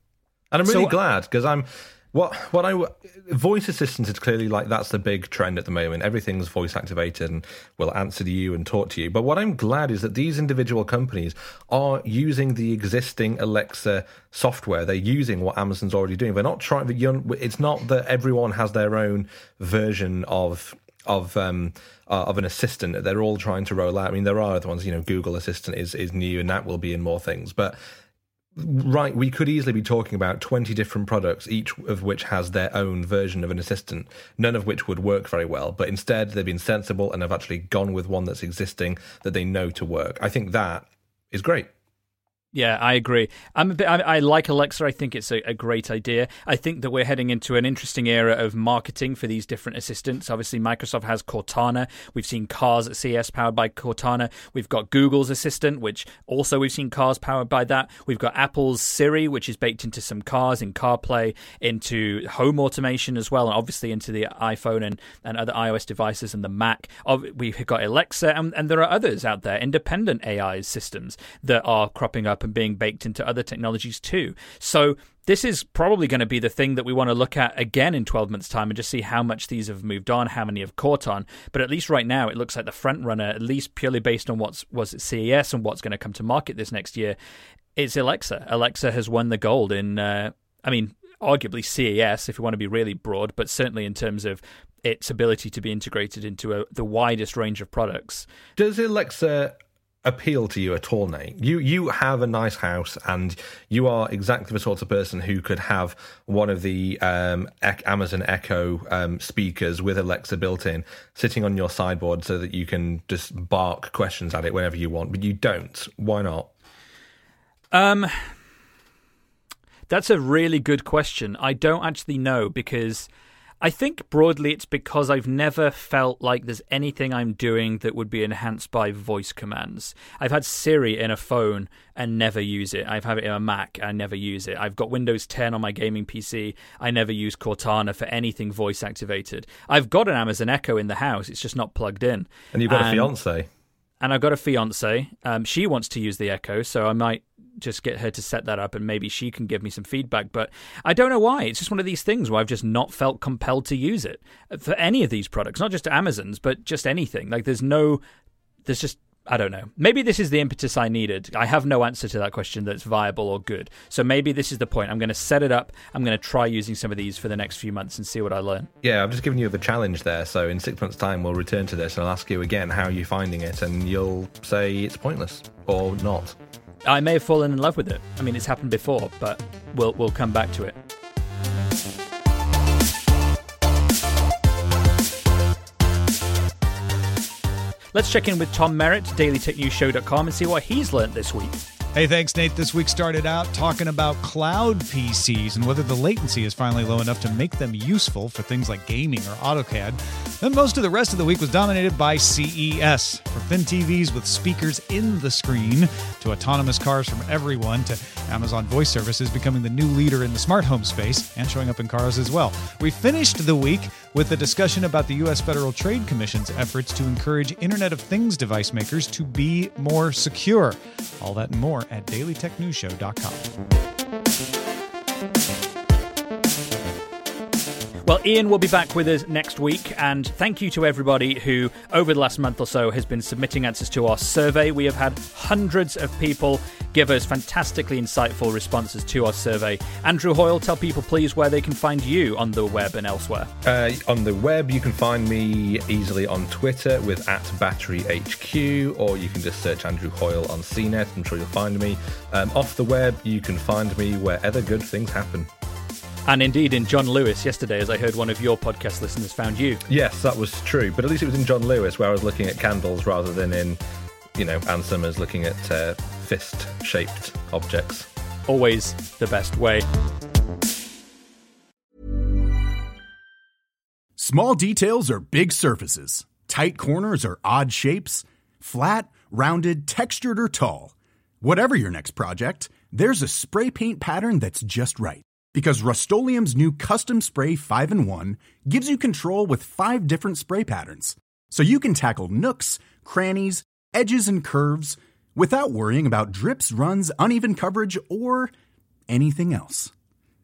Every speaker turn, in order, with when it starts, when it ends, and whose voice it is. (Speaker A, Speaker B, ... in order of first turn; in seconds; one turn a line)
Speaker A: 0.5-27.8
Speaker B: 0.7-1.0
Speaker A: 28.6-41.7
Speaker B: 42.5-87.2
Speaker B: 87.8-98.3
Speaker A: 98.6-116.5
Speaker B: 117.7-118.3
Speaker B: 119.9-123.1
Speaker B: 123.6-143.1
Speaker A: 142.5-143.5
Speaker B: 144.0-158.0
Speaker B: 158.7-168.7
Speaker A: 168.8-176.4
Speaker B: 176.8-180.8
Speaker B: 187.9-191.6
Speaker C: 191.9-223.5
Speaker B: 228.1-243.5
Speaker A: 243.6-255.5
Speaker B: 256.3-259.8
Speaker A: 259.9-263.8
Speaker A: 264.4-268.1
Speaker B: 268.5-269.9
Speaker D: 274.2-298.5
Speaker D: 299.1-299.9